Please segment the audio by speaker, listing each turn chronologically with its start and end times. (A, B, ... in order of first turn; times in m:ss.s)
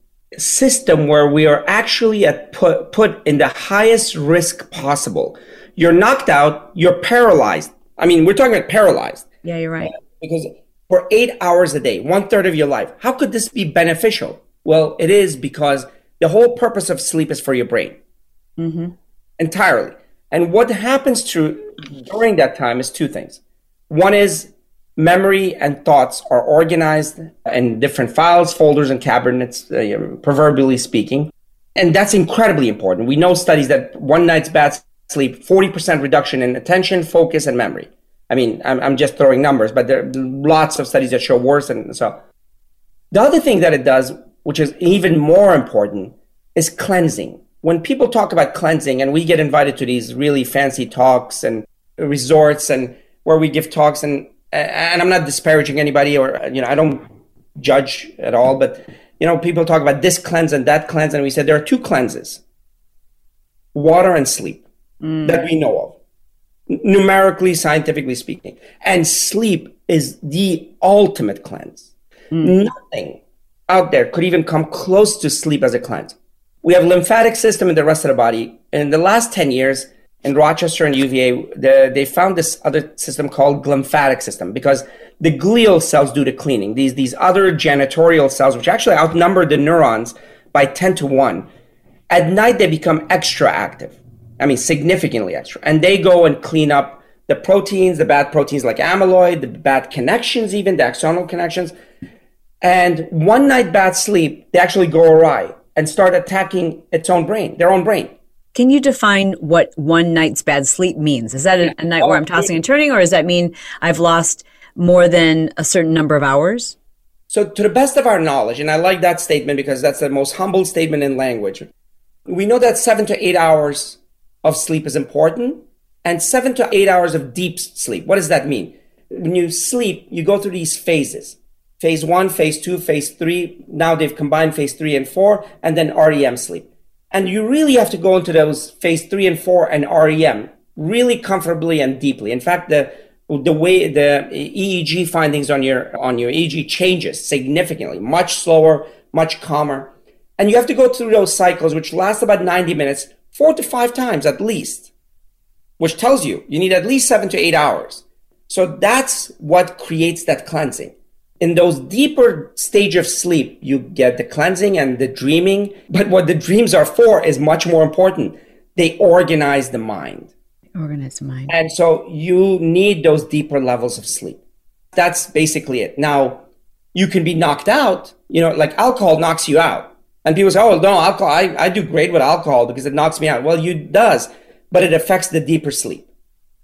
0:00.4-0:09.3 A
0:09.4-0:09.9 B
0:09.9-0:18.0 A
0:18.6-0:18.9 B
0:19.4-0:23.4 A
0:23.9-0:42.2 A
0:43.1-0:57.1 A
0:57.6-1:02.4 A
1:03.7-1:04.6 A
1:05.0-1:05.5 B
1:05.2-1:06.0 A
1:06.7-1:11.9 A
1:12.4-1:31.5 A
1:32.1-1:41.7 A
1:42.6-1:48.1 A
1:48.5-1:56.8 B
1:52.0-1:52.5 A
1:57.3-2:01.7 A
2:02.3-2:34.9 A
2:35.8-2:50.3 A
2:50.8-2:51.5 B
2:51.5-2:54.4 A
2:55.0-2:56.4 A
2:56.9-3:06.1 A